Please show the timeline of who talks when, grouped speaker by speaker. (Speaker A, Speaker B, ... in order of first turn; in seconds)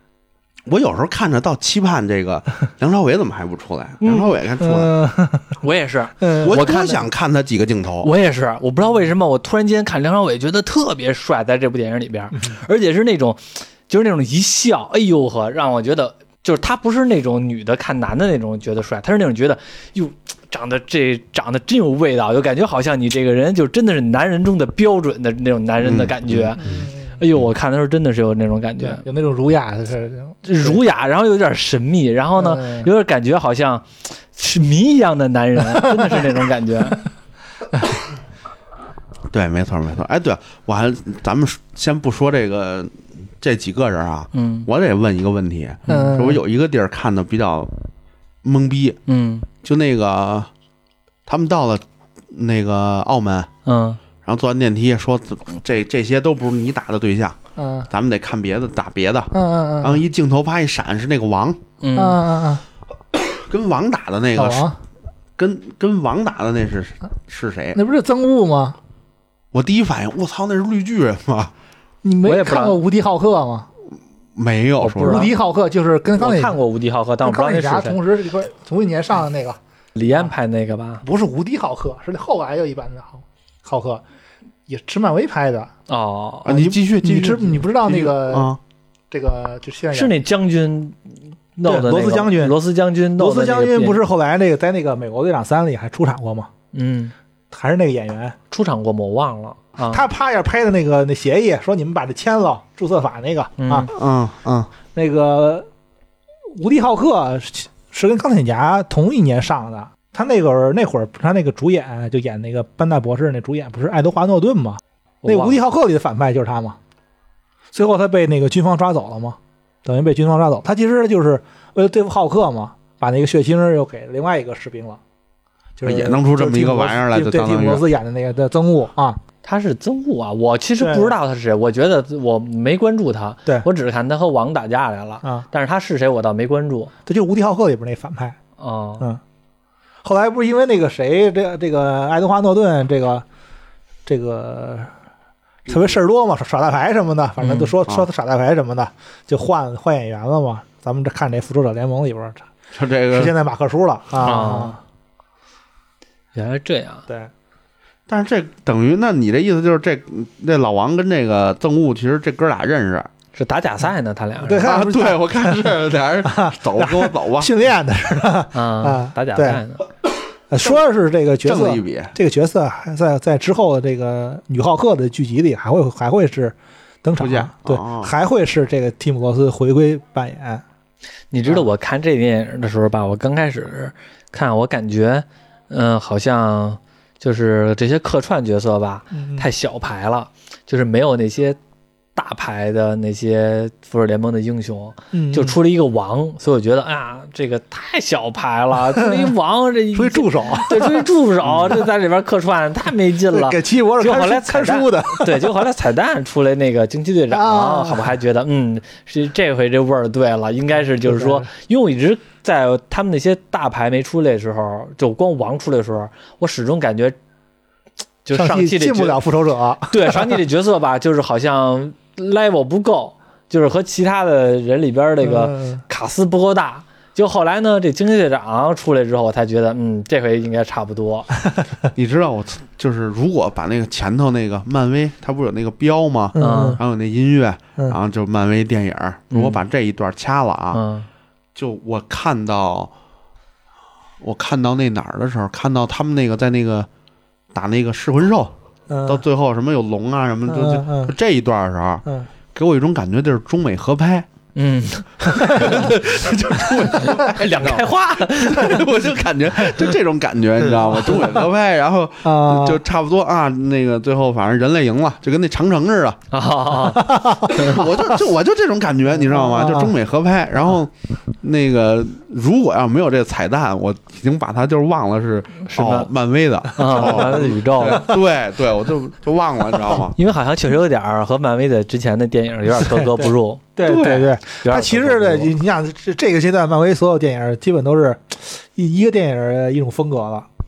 Speaker A: 0.7-5.0, 6.4-8.1, 25.8-26.8, 39.3-47.8, 48.4-49.0, 49.6-50.5, 51.2-53.5, 54.2-57.4, 57.9-61.6, 63.3-64.7, 65.4-67.8, 69.5-71.5, 74.3-75.3, 86.4-88.6, 103.9-104.7, 125.8-127.8, 152.7-153.3, 158.1-163.1, 164.6-167.5, 171.4-172.1, 177.2-178.1, 231.9-240.8, 241.5-242.9, 244.2-246.9, 247.5-248.5, 249.1-254.3, 255.3-266.2, 267.5-280.1
Speaker B: 4.0-4.3, 5.6-7.0, 8.0-29.0, 30.4-37.0, 44.3-44.7, 45.9-46.2, 49.1-49.5, 53.6-54.0, 61.8-62.2, 72.2-72.8, 74.8-75.3, 76.2-78.0, 80.0-81.0, 85.9-86.7, 89.9-91.0, 91.6-94.0, 96.7-97.1, 98.5-100.0, 103.6-103.9, 115.2-115.6, 129.4-136.9, 138.6-139.0, 147.4-147.7, 154.2-154.8, 156.3-157.1, 163.3-164.8, 168.5-169.8, 181.3-191.6, 192.2-217.2, 218.2-219.2, 219.9-231.3, 236.4-236.8, 239.3-239.6, 240.7-241.1, 254.6-255.9, 256.9-258.9, 266.3-267.8, 275.6-276.1, 276.7-278.1, 280.1-285.5
Speaker C: 4.6-5.6, 6.2-6.6, 26.6-27.2, 28.8-30.8, 32.4-32.9, 35.8-36.3, 45.9-46.4, 57.6-57.9, 59.3-60.0, 62.0-62.6, 64.3-64.8, 67.7-68.8, 72.0-73.7, 75.0-76.6, 77.2-80.3, 81.0-84.0, 84.7-85.7, 86.6-88.6, 89.1-90.1, 91.6-92.5, 93.2-96.5, 97.5-98.4, 99.9-103.9, 104.9-105.7, 106.5-116.8, 117.7-125.0, 125.8-129.2, 130.8-131.1, 137.1-138.4, 140.0-143.2, 144.1-144.9, 145.7-152.5, 153.1-154.8, 164.4-169.6, 170.5-180.6, 189.1-189.5, 195.1-195.6, 198.9-199.3, 199.9-201.1, 203.3-205.5, 207.3-208.2, 211.0-211.5, 218.3-220.4, 225.2-225.8, 236.3-236.8, 248.9-249.2, 250.5-251.1, 261.1-261.4, 262.2-262.8, 266.9-268.1, 269.2-269.9, 282.7-290.5